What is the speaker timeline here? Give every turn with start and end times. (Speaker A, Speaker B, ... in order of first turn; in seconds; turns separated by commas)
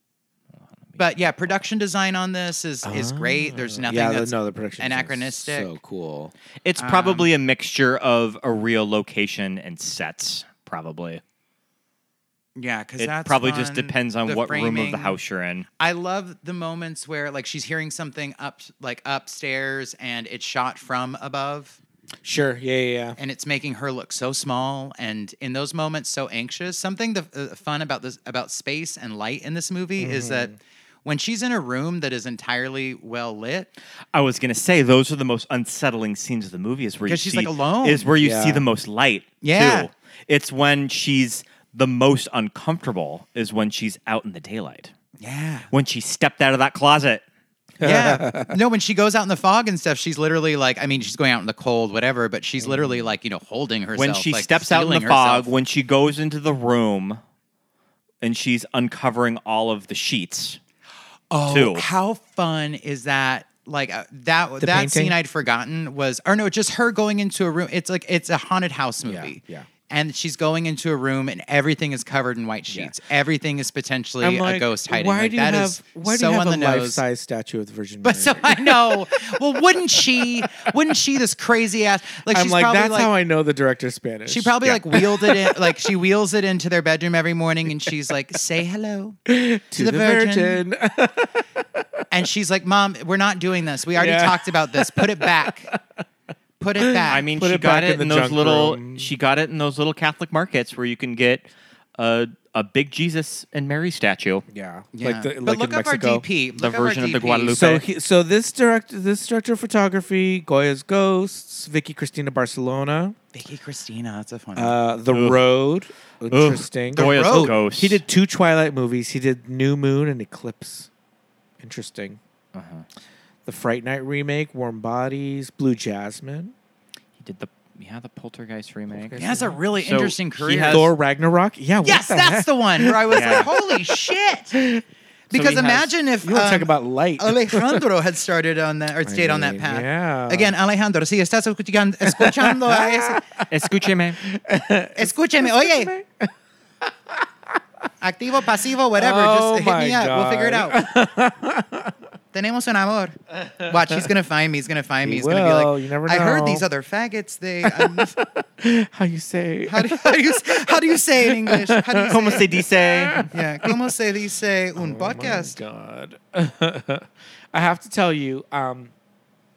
Speaker A: 0.8-1.6, Speaker B: 1.0-5.7, Speaker C: 2.8-6.3, Speaker A: 6.6-11.2, Speaker B: 6.8-7.3, Speaker B: 12.6-15.2, Speaker A: 13.0-15.7, Speaker B: 15.8-21.8, Speaker C: 22.2-23.2, Speaker B: 23.2-33.7, Speaker C: 30.0-30.6, Speaker A: 34.1-44.9, Speaker B: 37.1-38.0, Speaker C: 38.2-38.6, Speaker B: 39.4-39.9, Speaker B: 45.2-45.7, Speaker A: 45.7-47.2, Speaker C: 47.8-48.5, Speaker B: 47.8-55.5, Speaker C: 52.6-53.1, Speaker A: 53.9-57.2, Speaker A: 58.2-60.6, Speaker B: 61.3-77.0, Speaker A: 61.5-61.9, Speaker C: 64.6-65.2, Speaker C: 69.0-69.7, Speaker C: 72.7-72.9, Speaker C: 74.2-79.2, Speaker B: 78.0-83.1, Speaker C: 82.3-85.7, Speaker B: 84.3-89.2, Speaker C: 89.3-92.0, Speaker B: 89.7-90.6, Speaker B: 92.1-95.7, Speaker C: 93.9-96.0, Speaker B: 96.6-97.3, Speaker C: 96.8-99.1, Speaker A: 97.1-104.4, Speaker C: 104.5-106.2, Speaker B: 104.9-107.7, Speaker A: 106.6-107.8, Speaker C: 107.5-113.2, Speaker B: 113.3-114.8, Speaker C: 114.5-120.9, Speaker A: 115.1-115.4, Speaker A: 116.3-118.0, Speaker B: 116.9-117.5, Speaker C: 121.6-122.2, Speaker A: 122.5-122.8, Speaker C: 123.5-126.5, Speaker A: 127.2-129.2, Speaker C: 128.9-129.6, Speaker B: 129.2-130.9, Speaker A: 129.8-130.9, Speaker C: 130.5-133.9, Speaker B: 131.8-134.6, Speaker A: 133.1-133.5, Speaker C: 134.5-134.8, Speaker B: 135.3-143.2, Speaker A: 135.3-135.9, Speaker C: 136.2-137.8, Speaker C: 139.0-140.5, Speaker C: 142.0-143.5, Speaker A: 143.5-144.2, Speaker C: 144.2-147.6, Speaker B: 145.0-145.9, Speaker B: 148.0-150.8, Speaker C: 148.9-151.9, Speaker B: 152.3-153.2, Speaker C: 153.4-153.9, Speaker B: 153.7-158.1, Speaker C: 155.0-156.7, Speaker C: 157.6-163.7, Speaker B: 159.7-162.5, Speaker A: 162.1-163.2, Speaker B: 163.3-165.6, Speaker C: 164.8-168.9